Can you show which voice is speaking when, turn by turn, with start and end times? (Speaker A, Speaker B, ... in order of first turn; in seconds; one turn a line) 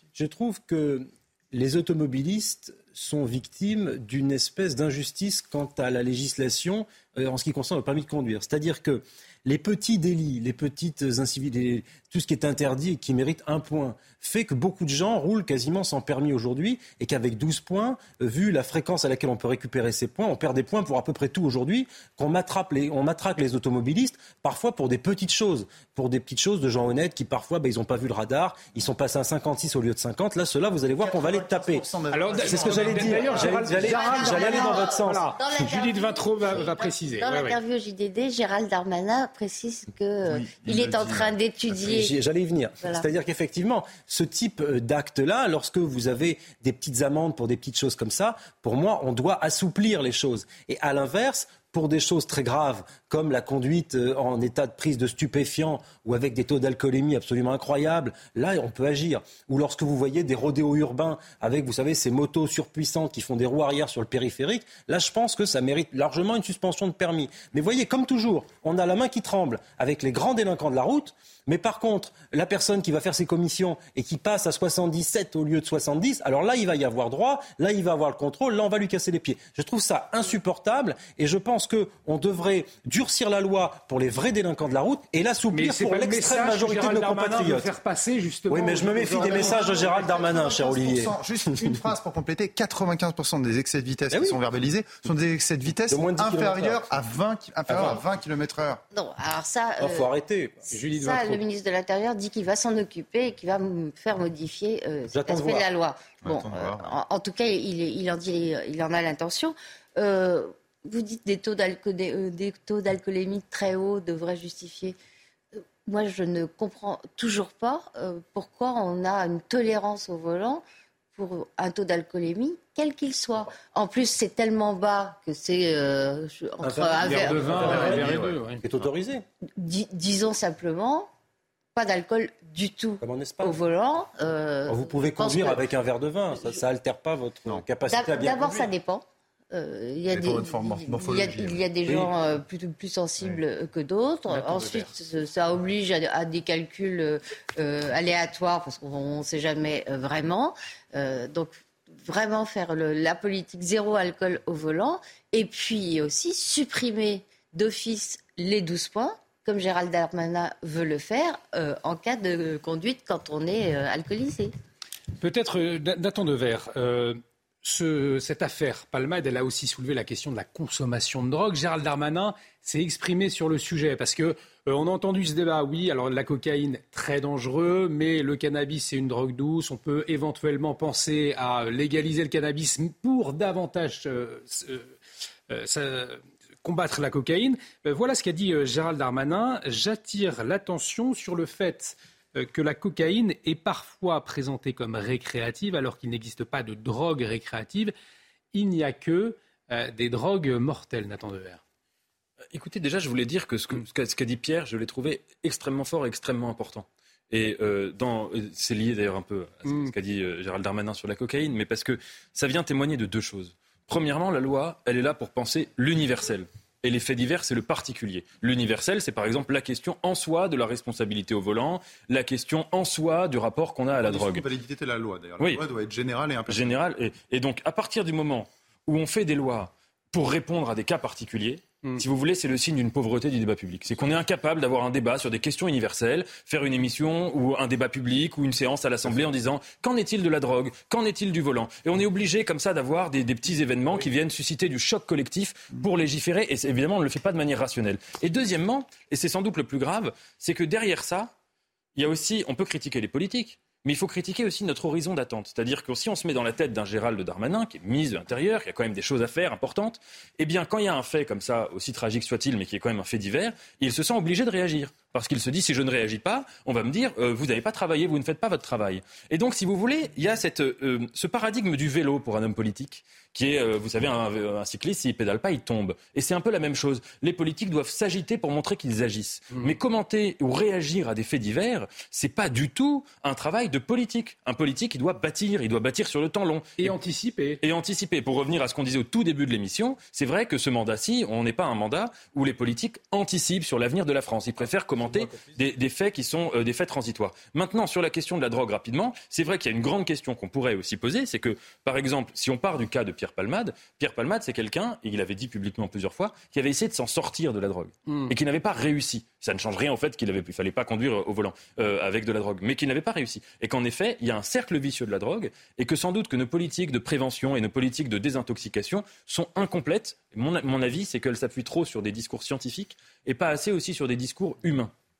Speaker A: 0.1-35.3
Speaker B: 31.0-33.6
Speaker C: 32.1-37.6
Speaker D: 33.8-42.1
Speaker B: 40.2-41.3
Speaker A: 41.7-87.7
Speaker D: 42.8-43.0
Speaker C: 85.5-90.2
Speaker A: 88.5-91.8
Speaker B: 89.1-98.8
Speaker A: 94.1-94.4
Speaker A: 95.9-97.0
Speaker A: 97.7-98.0
Speaker D: 98.9-100.1
Speaker A: 99.8-100.7
Speaker C: 100.7-101.4
Speaker D: 100.7-115.0
Speaker A: 105.1-105.7
Speaker B: 106.2-107.0
Speaker D: 115.5-120.6
Speaker D: 121.1-128.1
Speaker A: 126.6-129.2
Speaker C: 127.0-128.6
Speaker D: 129.6-131.1
Speaker D: 131.7-135.6
Speaker A: 133.0-133.6
Speaker A: 134.7-138.7
Speaker D: 137.9-164.5
Speaker B: 140.1-142.1
Speaker C: 165.2-184.9
Speaker C: 185.5-197.9
Speaker C: 198.5-201.6
Speaker E: 202.5-224.4
Speaker C: 209.6-209.9
Speaker B: 224.0-226.7
Speaker E: 226.5-251.3
Speaker E: 251.9-286.9
Speaker C: 286.8-287.6
Speaker E: 287.6-324.9
Speaker C: 308.1-308.3